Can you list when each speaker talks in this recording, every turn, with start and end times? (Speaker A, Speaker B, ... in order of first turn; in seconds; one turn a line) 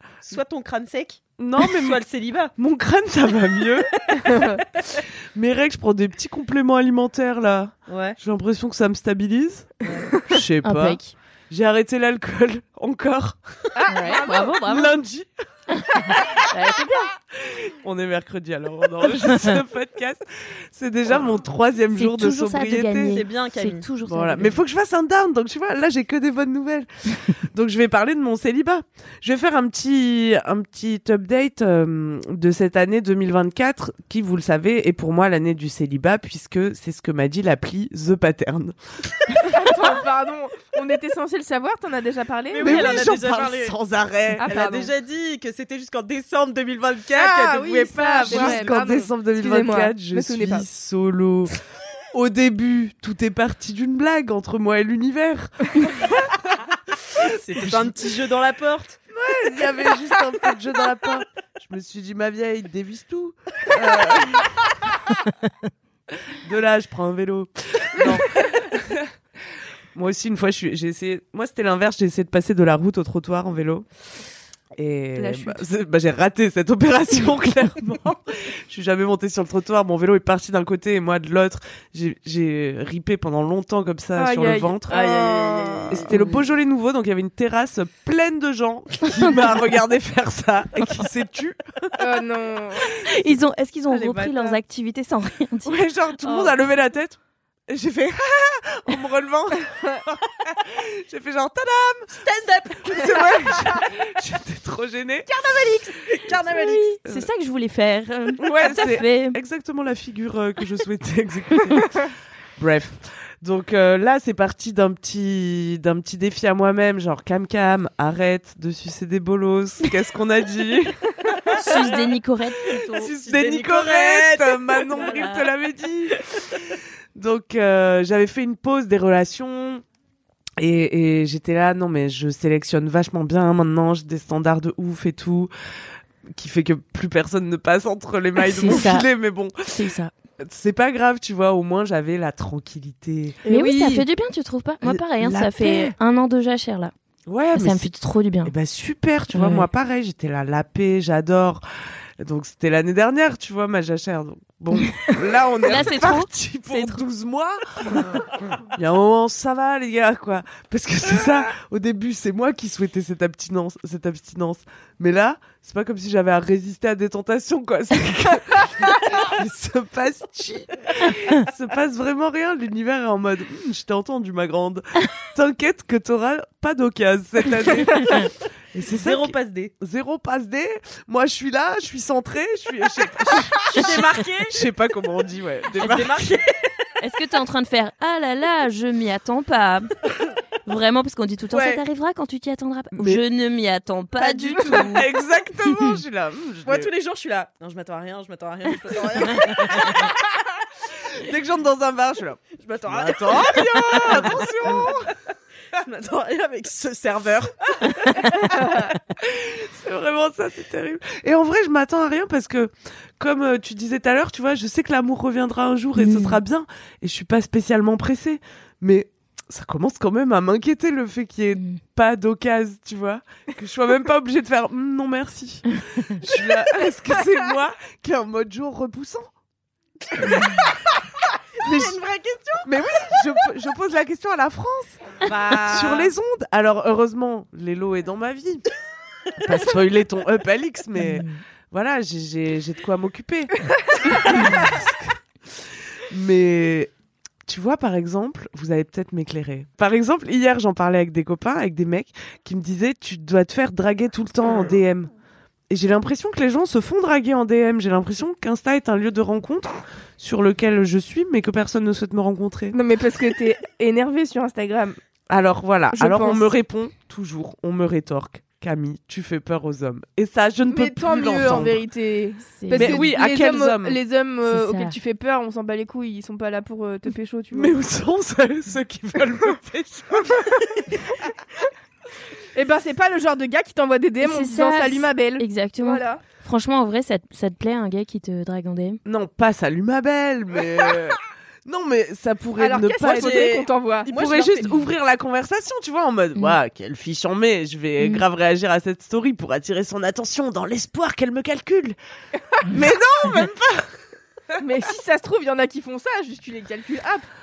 Speaker A: 0.2-2.5
Speaker B: 1.4-2.0
Speaker B: 2.6-3.9
Speaker B: 5.3-13.4
Speaker A: 7.9-8.2
Speaker A: 9.8-10.1
Speaker C: 10.6-11.2
Speaker D: 13.8-14.4
Speaker C: 13.9-14.9
Speaker B: 14.6-15.3
Speaker C: 15.8-17.1
Speaker B: 17.3-23.1
Speaker C: 19.3-19.6
Speaker C: 21.9-24.6
Speaker A: 23.1-23.9
Speaker B: 24.0-38.8
Speaker D: 39.5-43.0
Speaker A: 42.5-43.8
Speaker B: 42.6-44.6
Speaker D: 44.4-44.9
Speaker A: 44.4-48.8
Speaker D: 47.1-50.6
Speaker B: 48.1-51.5
Speaker B: 52.1-56.2
Speaker B: 57.2-57.9
Speaker A: 57.2-59.0
Speaker B: 59.1-64.6
Speaker B: 66.4-69.1
Speaker B: 69.9-73.8
Speaker B: 74.8-85.1
Speaker D: 75.2-75.6
Speaker D: 84.2-86.0
Speaker A: 84.9-86.3
Speaker B: 85.9-92.0
Speaker D: 92.0-92.9
Speaker C: 93.1-96.4
Speaker A: 93.9-94.6
Speaker B: 95.6-97.2
Speaker B: 97.7-102.1
Speaker A: 102.2-103.6
Speaker B: 102.8-105.3
Speaker A: 105.4-107.0
Speaker C: 106.5-109.4
Speaker B: 108.4-121.0
Speaker C: 121.6-123.1
Speaker A: 121.6-121.9
Speaker B: 122.9-126.2
Speaker A: 123.2-125.5
Speaker B: 127.1-129.8
Speaker B: 130.6-135.5
Speaker B: 136.3-139.9
Speaker C: 138.4-139.1
Speaker C: 139.7-140.1
Speaker B: 140.4-144.0
Speaker C: 143.5-146.9
Speaker B: 144.8-145.9
Speaker B: 147.2-147.8
Speaker C: 147.5-148.5
Speaker B: 148.4-151.6
Speaker C: 149.3-149.7
Speaker B: 152.2-158.0
Speaker C: 154.8-157.0
Speaker B: 158.7-186.4
Speaker A: 178.8-179.7
Speaker A: 183.6-184.7
Speaker A: 185.8-186.7
Speaker C: 187.0-189.9
Speaker C: 190.7-195.1
Speaker B: 192.9-193.2
Speaker B: 194.2-196.9
Speaker A: 196.6-200.1
Speaker B: 201.2-205.1
Speaker A: 202.5-205.1
Speaker A: 205.8-208.9
Speaker B: 209.2-229.3
Speaker C: 216.0-216.4
Speaker A: 230.2-230.6
Speaker A: 231.6-233.2
Speaker B: 231.6-232.0
Speaker B: 232.6-235.0
Speaker A: 235.2-236.1
Speaker B: 235.6-238.6
Speaker B: 239.4-243.5
Speaker C: 241.0-241.4
Speaker B: 244.0-246.9
Speaker B: 247.4-255.1
Speaker B: 255.7-262.8
Speaker D: 262.7-265.0
Speaker B: 265.3-271.8
Speaker D: 265.9-266.5
Speaker D: 270.7-277.7
Speaker C: 272.6-273.1
Speaker B: 272.7-274.0
Speaker C: 274.5-274.9
Speaker B: 277.5-280.5
Speaker D: 282.5-286.2
Speaker C: 284.2-289.0
Speaker B: 289.1-301.9
Speaker D: 292.6-294.1
Speaker A: 293.0-294.8
Speaker C: 298.0-298.2
Speaker B: 302.6-303.9
Speaker D: 304.6-307.3